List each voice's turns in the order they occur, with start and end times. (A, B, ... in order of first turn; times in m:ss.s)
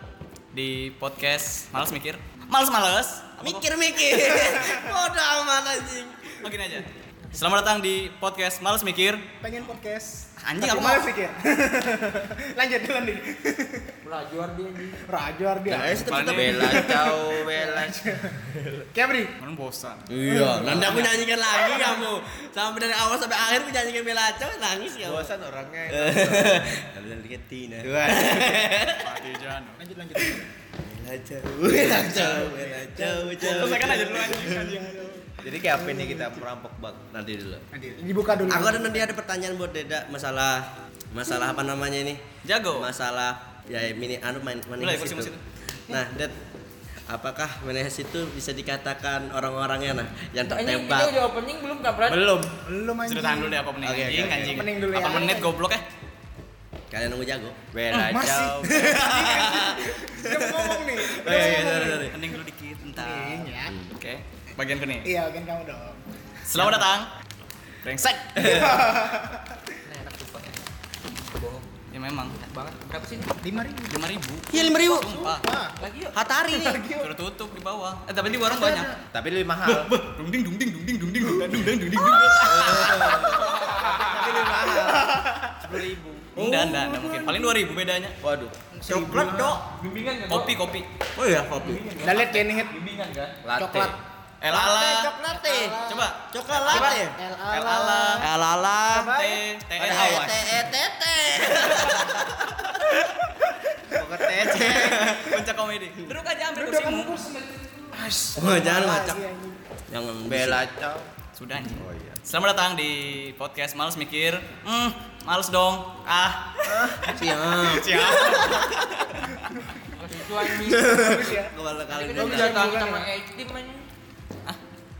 0:00.5-0:03.6 A
0:03.4-0:06.5 B
0:06.4-0:09.2 A
0:09.4-0:13.9 C
0:10.4-0:11.1 A
0:14.0-0:15.0 D
0:15.0-0:18.4 C
0:15.7-0:16.7 B
0:15.9-0:18.8 E
0:16.0-0:16.8 A
0:18.9-0:19.3 C
0:19.4-0:20.0 A
0:20.1-0:25.3 B
0:20.2-0:21.0 C
0:25.0-0:26.8 E
0:25.9-0:29.1 B
0:27.8-0:28.7 E
0:29.0-0:29.8 A
0:29.8-0:30.5 C
0:30.8-0:34.5 B
0:32.2-0:36.4 C
0:32.2-0:32.5 E
0:33.4-0:35.0 A
0:35.4-0:37.1 E
0:37.1-0:37.6 B
0:37.7-0:39.1 C
0:38.4-0:46.4 B
0:42.4-0:42.9 A
0:44.8-0:45.4 A
0:47.1-0:51.2 B
0:50.4-0:52.4 D
0:52.0-0:52.6 E
0:52.6-0:53.6 C
0:53.1-0:55.8 A
0:53.8-0:54.7 E
0:54.2-0:55.5 C
0:56.9-0:57.6 B
0:57.7-0:58.6 E
0:57.9-0:59.7 A
0:58.1-1:02.1 C
0:59.1-1:02.2 B
1:01.3-1:05.1 A
1:03.0-1:03.7 C
1:05.0-1:06.0 C
1:06.5-1:07.1 A
1:07.8-1:08.8 A
1:08.4-1:09.5 C
1:09.8-1:10.6 D
1:11.2-1:11.7 D
1:11.9-1:12.4 A
1:12.3-1:13.4 D
1:13.4-1:14.0 C
1:13.9-1:15.4 A
1:14.5-1:15.2 B
1:14.8-1:15.8 C
1:15.8-1:16.2 D
1:16.1-1:16.8 B
1:16.4-1:17.1 C
1:17.0-1:19.0 A
1:18.4-1:18.9 C
1:19.1-1:19.9 E
1:19.6-1:23.6 A
1:22.2-1:22.4 C
1:22.4-1:24.7 B
1:22.5-1:23.3 E
1:23.3-1:25.0 D
1:23.9-1:25.6 C
1:24.2-1:24.6 A
1:25.6-1:26.4 D
1:26.3-1:28.2 A
1:26.4-1:27.5 C
1:28.2-1:28.5 E
1:28.7-1:29.6 C
1:28.9-1:29.6 A
1:29.7-1:30.6 D
1:30.3-1:30.9 A
1:31.2-1:31.8 E
1:31.5-1:33.9 D
1:32.0-1:32.8 C
1:33.4-1:33.9 E
1:33.6-1:33.9 C
1:34.4-1:35.1 A
1:34.5-1:36.1 C
1:34.9-1:37.2 B
1:35.9-1:37.0 A
1:36.7-1:38.3 C
1:37.5-1:38.2 A
1:38.2-1:39.1 B
1:38.9-1:39.4 C
1:39.1-1:40.5 A
1:39.8-1:42.3 B
1:39.8-1:41.6 E
1:43.9-1:45.2 E
1:44.5-1:45.1 B
1:44.5-1:47.2 A
1:46.6-1:49.6 C
1:48.4-1:49.2 B
1:49.9-1:50.6 B
1:50.2-1:51.1 E
1:51.4-1:59.5 A
1:51.7-1:52.2 E
1:56.7-1:59.0 B
1:59.9-2:01.3 D
2:00.5-2:02.7 B
2:00.8-2:01.5 C
2:01.9-2:03.9 D
2:02.2-2:03.1 C